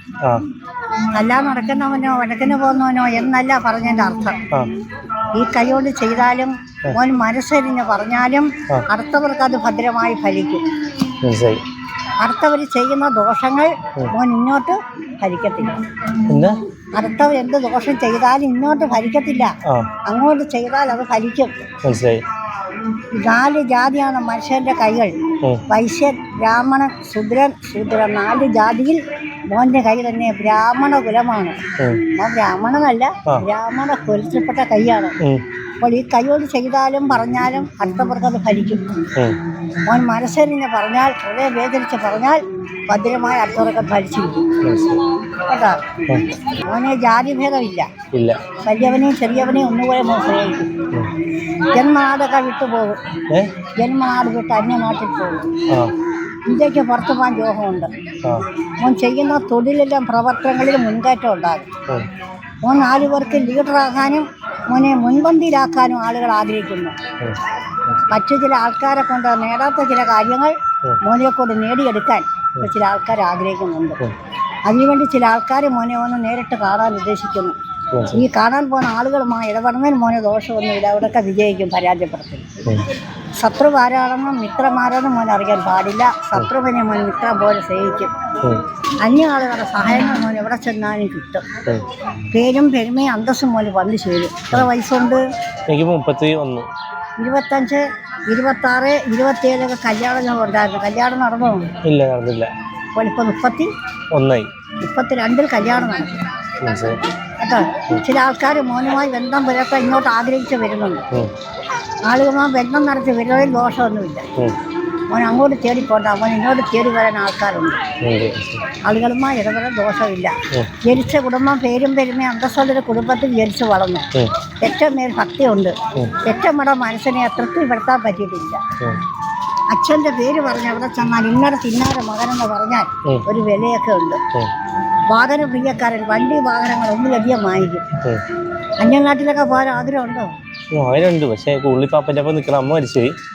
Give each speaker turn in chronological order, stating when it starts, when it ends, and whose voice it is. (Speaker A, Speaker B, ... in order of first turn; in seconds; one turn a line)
Speaker A: 1.1-4.4
Speaker A: 5.3-10.7
Speaker B: 11.2-11.6
Speaker A: 12.2-15.8
Speaker B: 16.3-16.6
Speaker A: 16.9-19.6
Speaker B: 19.6-19.9
Speaker A: 20.1-21.5
Speaker B: 21.8-22.2
Speaker A: 23.1-35.2
Speaker B: 31.8-32.0
Speaker A: 35.8-39.0
Speaker A: 39.9-44.5
Speaker B: 44.6-45.1
Speaker A: 45.3-45.8
Speaker A: 46.4-47.9
Speaker B: 48.1-48.4
Speaker A: 48.6-50.8
Speaker A: 51.7-53.0
Speaker A: 53.8-55.5
Speaker A: 56.5-57.9
Speaker A: 58.8-61.7
Speaker A: 62.6-67.0
Speaker B: 67.2-68.0
Speaker A: 68.1-74.0
Speaker A: 74.7-77.6
Speaker B: 77.9-78.2
Speaker A: 78.1-82.5
Speaker A: 83.4-88.1
Speaker A: 89.0-91.5
Speaker A: 92.2-95.2
Speaker B: 95.7-96.7
Speaker A: 97.2-101.7
Speaker B: 101.8-102.5
Speaker A: 103.0-103.7
Speaker B: 104.1-104.5
Speaker A: 104.8-106.2
Speaker B: 106.6-107.0
Speaker A: 107.4-111.1
Speaker A: 112.0-114.3
Speaker A: 115.1-117.8
Speaker B: 118.0-118.6
Speaker A: 118.8-124.1
Speaker A: 124.6-128.6
Speaker A: 129.7-134.2
Speaker A: 135.1-137.8
Speaker A: 138.8-140.3
Speaker B: 140.7-143.2